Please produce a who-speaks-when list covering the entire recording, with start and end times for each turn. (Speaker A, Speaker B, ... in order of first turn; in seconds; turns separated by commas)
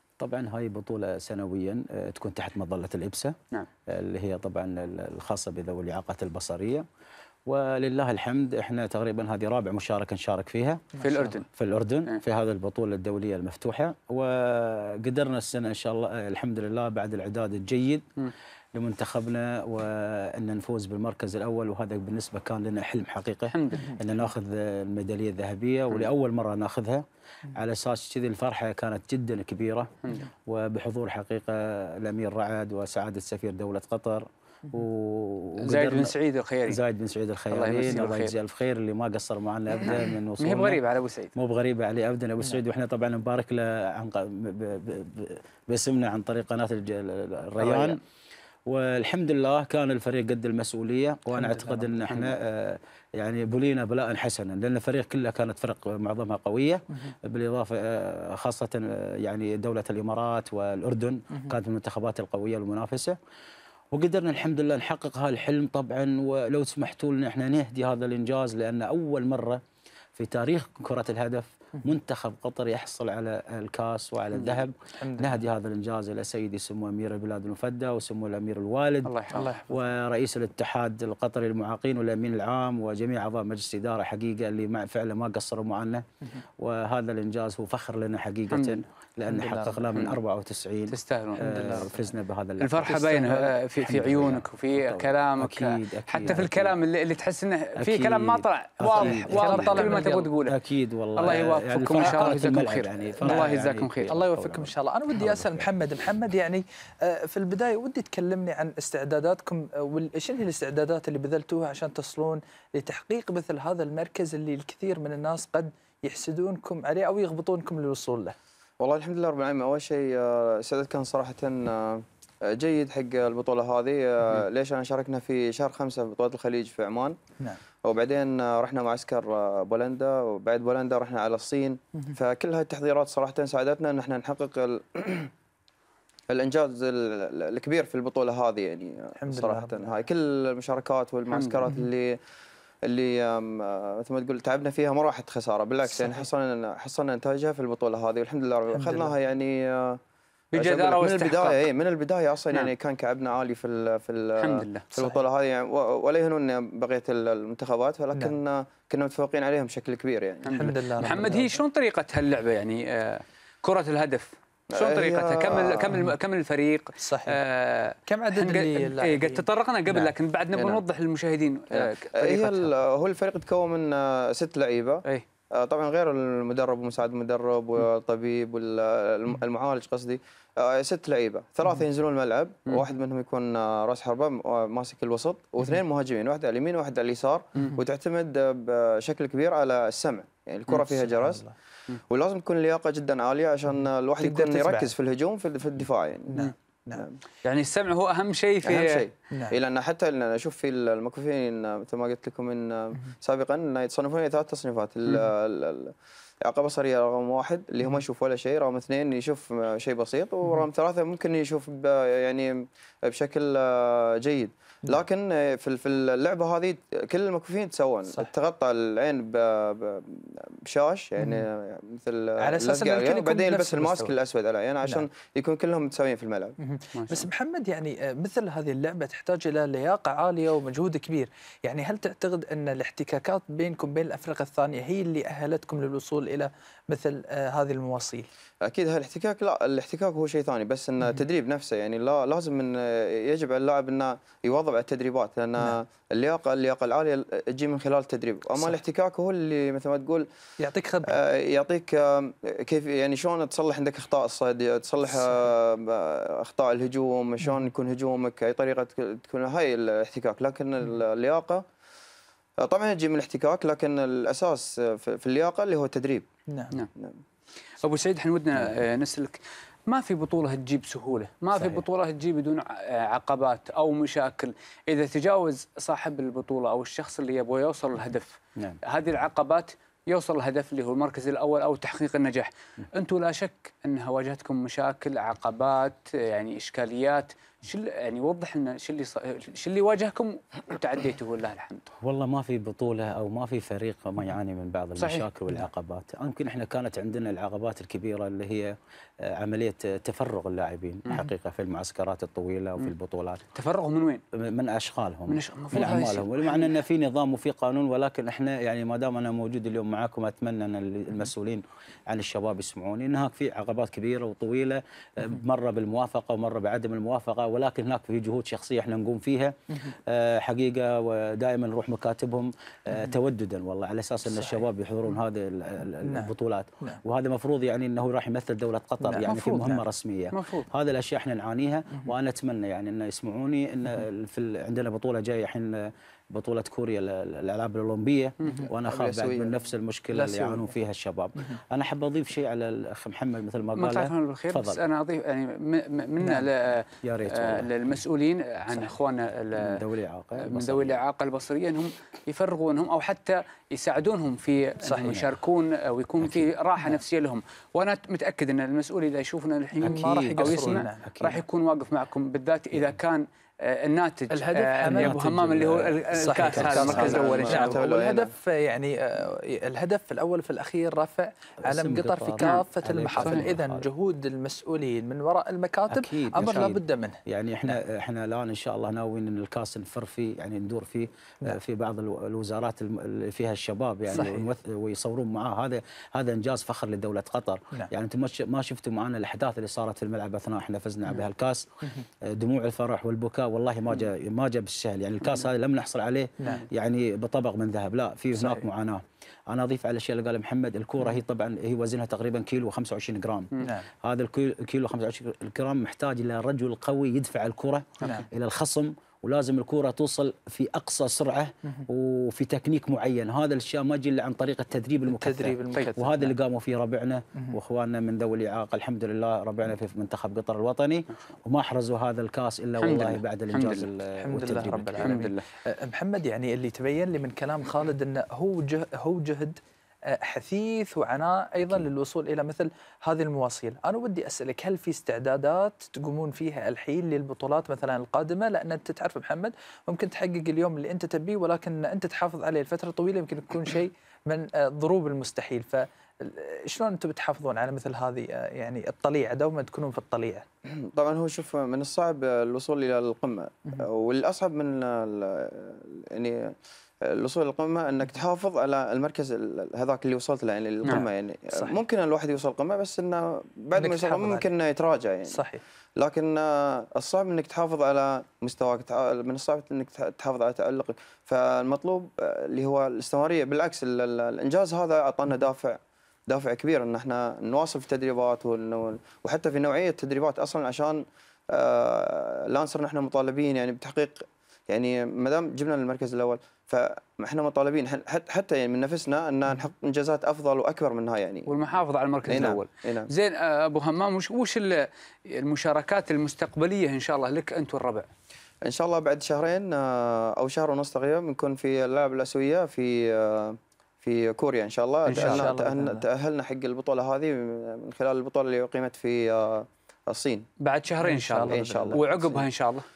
Speaker A: 0.2-3.4, Speaker A: 3.9-6.8, Speaker A: 7.5-10.9, Speaker B: 10.9-11.4, Speaker C: 11.0-11.4, Speaker A: 11.5-18.1, Speaker A: 18.7-27.0, Speaker C: 23.5-23.9, Speaker A: 27.5-29.9, Speaker A: 30.5-36.1, Speaker C: 35.6-36.8, Speaker A: 36.6-40.8, Speaker C: 37.5-38.3, Speaker C: 40.4-41.3, Speaker A: 41.3-48.0, Speaker C: 47.6-48.0, Speaker A: 48.7-63.2, Speaker B: 51.3-51.9, Speaker C: 52.1-52.4, Speaker A: 63.9-69.6, Speaker A: 70.1-86.0, Speaker C: 74.4-74.6, Speaker B: 75.0-75.4, Speaker C: 79.0-79.5, Speaker B: 79.3-79.8, Speaker A: 86.6-96.8, Speaker C: 88.5-88.8, Speaker B: 89.3-89.8, Speaker C: 89.9-90.2, Speaker C: 90.9-91.9, Speaker B: 91.4-92.1, Speaker C: 92.6-100.5, Speaker A: 97.8-105.7, Speaker B: 98.9-100.3, Speaker C: 101.1-104.1, Speaker B: 102.0-102.4, Speaker B: 103.2-103.5, Speaker B: 104.1-118.3, Speaker D: 118.8-127.2, Speaker D: 127.8-135.3, Speaker D: 136.3-142.2, Speaker B: 139.2-140.0, Speaker C: 141.3-141.6, Speaker D: 142.8-150.0, Speaker B: 146.0-146.2, Speaker B: 148.7-149.1, Speaker C: 150.5-151.7, Speaker D: 150.5-161.3, Speaker C: 154.4-154.9, Speaker C: 160.4-172.7, Speaker B: 160.5-161.6, Speaker D: 164.7-166.0, Speaker B: 167.0-167.4, Speaker B: 168.1-170.1, Speaker D: 170.5-170.8, Speaker D: 171.8-191.4, Speaker B: 190.7-191.5, Speaker D: 192.1-197.2, Speaker B: 194.2-194.9, Speaker B: 196.3-197.0, Speaker C: 197.4-199.1, Speaker D: 198.6-226.6, Speaker B: 199.3-199.6, Speaker B: 221.2-221.4, Speaker B: 222.4-224.1, Speaker B: 226.6-238.3, Speaker C: 226.9-227.3, Speaker D: 238.6-250.3, Speaker B: 250.6-251.2, Speaker D: 251.1-261.6, Speaker D: 262.6-266.3, Speaker B: 266.5-266.7, Speaker D: 266.9-267.2, Speaker C: 267.8-291.9, Speaker A: 271.5-271.8, Speaker A: 292.0-303.5, Speaker C: 295.0-295.3, Speaker C: 303.5-304.2, Speaker A: 304.3-344.8, Speaker C: 305.3-306.8, Speaker B: 324.2-324.6, Speaker B: 326.0-327.0, Speaker B: 329.0-329.8, Speaker C: 330.3-330.7, Speaker D: 338.8-339.5, Speaker B: 340.1-340.7, Speaker C: 343.8-349.8, Speaker B: 346.2-346.5, Speaker A: 347.0-347.9, Speaker A: 349.6-351.0, Speaker C: 350.4-367.8, Speaker B: 354.8-355.2, Speaker A: 356.2-356.5, Speaker B: 359.8-361.1, Speaker A: 359.8-361.4, Speaker B: 364.3-365.4, Speaker A: 364.8-367.4, Speaker B: 366.1-377.8, Speaker D: 366.5-368.3, Speaker A: 371.6-373.9, Speaker C: 373.2-373.5, Speaker A: 375.9-391.6, Speaker C: 376.4-376.7, Speaker B: 384.1-384.5, Speaker A: 392.2-425.4, Speaker B: 398.3-398.6, Speaker B: 403.6-403.9, Speaker B: 408.0-408.3, Speaker B: 415.1-416.3, Speaker C: 422.8-423.9, Speaker B: 424.2-429.6, Speaker C: 425.0-425.3, Speaker B: 430.1-450.4, Speaker D: 450.7-465.4, Speaker B: 461.5-461.8, Speaker B: 463.8-464.5, Speaker B: 465.3-465.6, Speaker D: 466.0-491.6, Speaker C: 491.5-498.1, Speaker D: 492.2-493.1, Speaker D: 498.6-510.5, Speaker C: 505.1-505.5, Speaker B: 505.1-506.0, Speaker C: 510.6-512.8, Speaker B: 511.0-512.4, Speaker D: 511.5-512.1